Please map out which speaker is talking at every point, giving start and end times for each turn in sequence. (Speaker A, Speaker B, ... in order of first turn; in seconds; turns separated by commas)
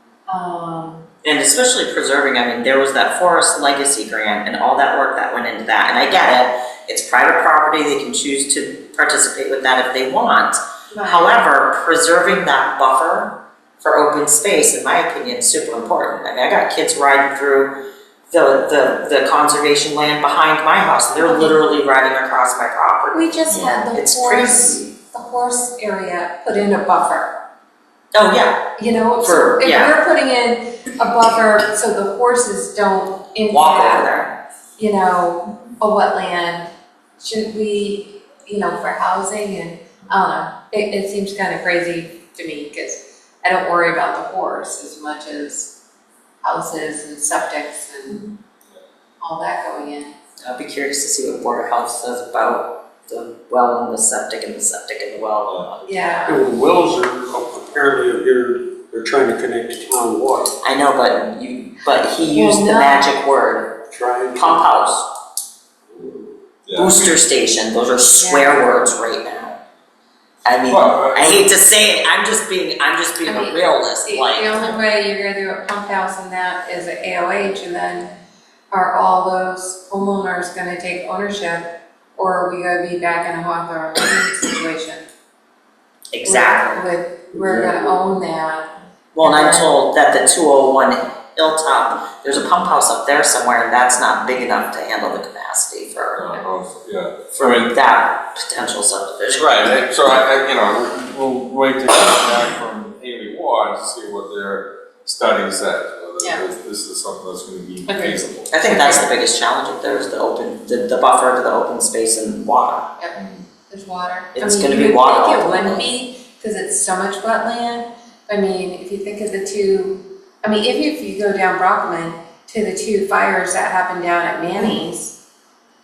Speaker A: 0.3-1.1, Speaker B: 1.2-17.7, Speaker A: 10.9-11.3, Speaker B: 18.3-23.2, Speaker A: 21.1-21.6, Speaker A: 23.1-27.3, Speaker B: 23.9-24.8, Speaker B: 28.1-29.9, Speaker A: 28.8-34.1, Speaker B: 33.5-34.3, Speaker A: 34.8-45.7, Speaker A: 46.4-48.2, Speaker A: 49.2-50.1, Speaker B: 50.4-55.9, Speaker A: 55.9-56.4, Speaker C: 56.3-60.5, Speaker B: 60.6-63.8, Speaker A: 62.2-63.1, Speaker C: 63.9-64.6, Speaker B: 64.3-65.1, Speaker C: 65.9-66.3, Speaker D: 66.6-67.0, Speaker B: 66.7-69.6, Speaker A: 68.1-68.7, Speaker B: 70.4-74.7, Speaker D: 70.7-71.5, Speaker A: 73.2-78.1, Speaker A: 78.7-85.1, Speaker B: 86.1-86.8, Speaker A: 86.2-89.7, Speaker B: 89.1-96.2, Speaker D: 96.2-97.7, Speaker B: 97.3-99.7, Speaker D: 99.4-108.5, Speaker A: 107.8-109.0, Speaker B: 108.5-112.9, Speaker D: 113.2-113.4, Speaker A: 113.7-125.2, Speaker B: 114.3-115.8